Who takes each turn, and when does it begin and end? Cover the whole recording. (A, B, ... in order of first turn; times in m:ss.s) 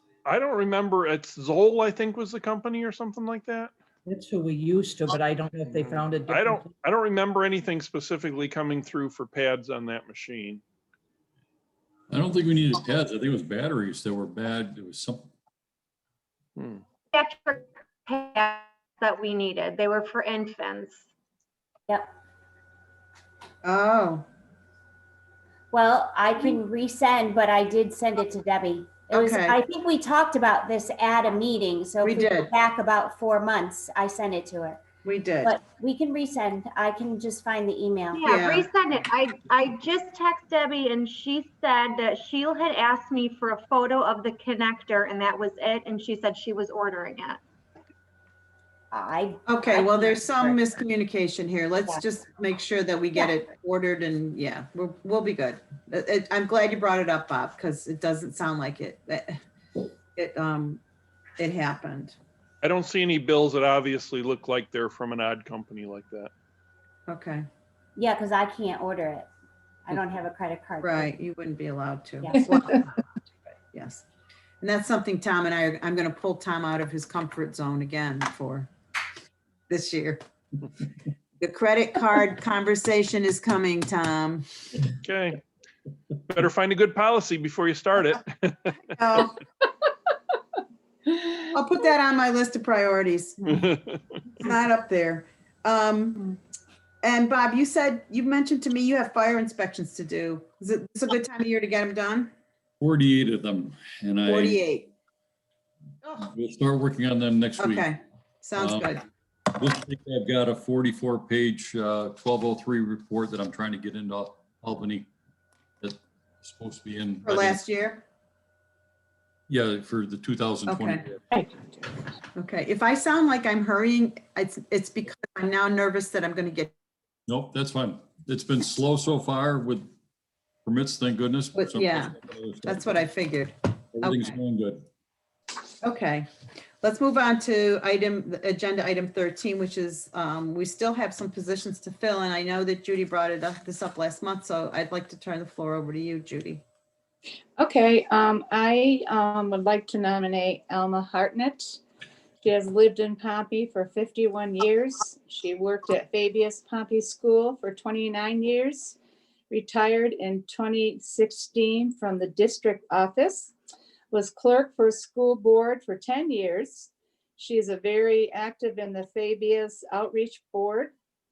0:00.2-0:03.7 A
0:04.0-0:06.7 B
0:05.7-0:10.6 A
0:12.1-0:15.3 C
0:16.6-0:16.8 A
0:17.1-0:21.0 D
0:23.6-0:24.2 E
0:25.7-0:34.8 F
0:29.1-0:29.6 E
0:32.0-0:32.5 E
0:35.0-0:35.5 E
0:35.4-0:38.2 F
0:38.1-0:47.4 D
0:38.2-0:38.7 E
0:48.9-0:50.7 F
0:49.5-0:59.4 E
1:00.2-1:00.8 E
1:01.4-1:02.2 E
1:02.6-1:06.3 A
1:07.1-1:07.4 E
1:08.0-1:09.3 F
1:09.8-1:11.2 F
1:10.8-1:12.9 E
1:13.7-1:14.0 E
1:14.6-1:18.7 E
1:19.7-1:20.2 E
1:21.4-1:24.4 E
1:25.0-1:25.4 A
1:26.3-1:29.0 A
1:29.0-1:29.3 E
1:31.5-1:33.7 E
1:33.5-1:34.0 A
1:34.4-1:36.4 E
1:37.0-1:42.3 E
1:42.8-1:44.6 C
1:44.2-1:44.9 E
1:46.2-1:47.9 C
1:47.6-1:49.0 E
1:48.6-1:48.9 C
1:49.5-1:55.1 C
1:55.8-1:57.6 C
1:57.2-1:58.0 E
1:59.5-2:01.2 C
2:00.7-2:01.0 E
2:02.4-2:06.7 E
2:07.3-2:09.9 C
2:10.6-2:13.0 C
2:11.5-2:12.1 E
2:12.6-2:14.4 E
2:13.9-2:14.8 C
2:15.8-2:16.3 E
2:16.8-2:26.6 E
2:27.6-2:31.8 G
2:32.4-2:39.0 G
2:39.5-2:43.5 G
2:44.1-2:50.9 G